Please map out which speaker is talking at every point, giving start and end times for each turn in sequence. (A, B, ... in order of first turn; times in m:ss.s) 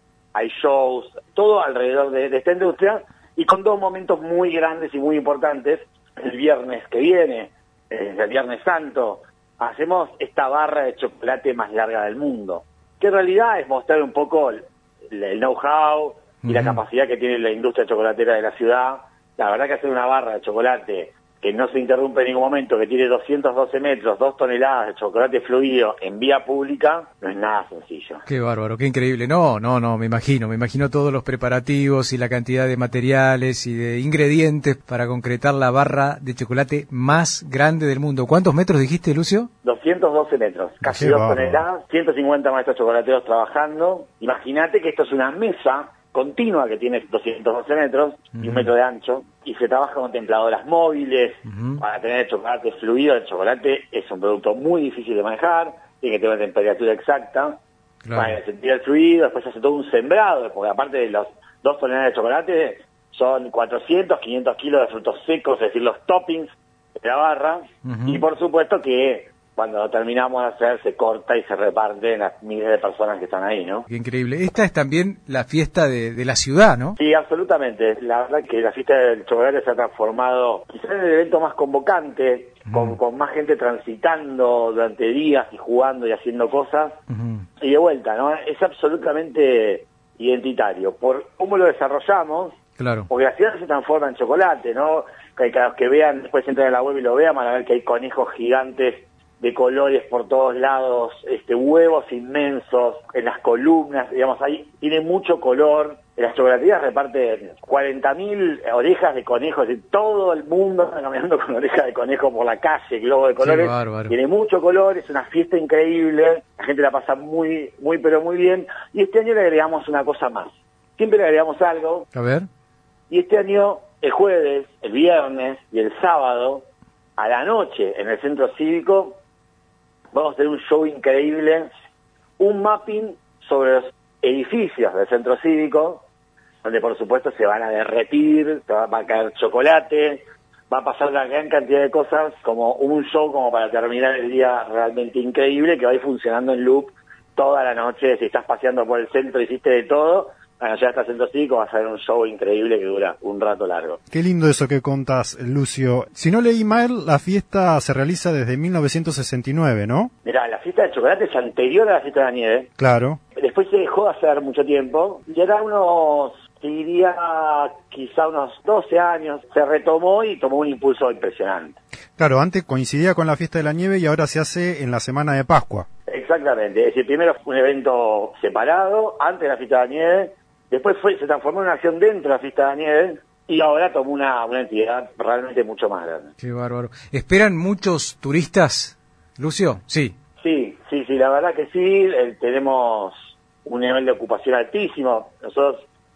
0:00.3-0:28.2 A
0:16.4-0:16.8 B
0:28.2-0:39.5 B
0:39.6-0:57.6 A
0:40.8-0:41.6 C
0:48.4-0:48.7 B
0:51.4-0:51.8 B
0:58.0-0:58.4 B
0:58.1-1:13.9 A
1:07.8-1:08.2 B
1:13.9-1:17.0 B
1:17.0-1:26.9 A
1:22.7-1:23.0 B
1:27.1-1:27.4 B
1:27.6-1:32.6 A
1:32.8-1:33.1 B
1:33.1-2:02.1 A
1:53.4-1:54.1 B
2:02.1-2:02.5 B
2:03.1-2:06.6 A
2:07.2-2:09.2 A
2:10.1-2:11.7 A
2:12.4-2:16.0 A
2:16.6-2:34.0 A
2:34.1-2:40.1 C
2:40.2-2:42.7 A
2:42.8-2:43.2 C
2:43.4-2:51.8 A
2:52.2-2:55.9 C
2:56.1-3:06.3 A
3:06.4-3:10.1 B
3:10.4-3:15.8 A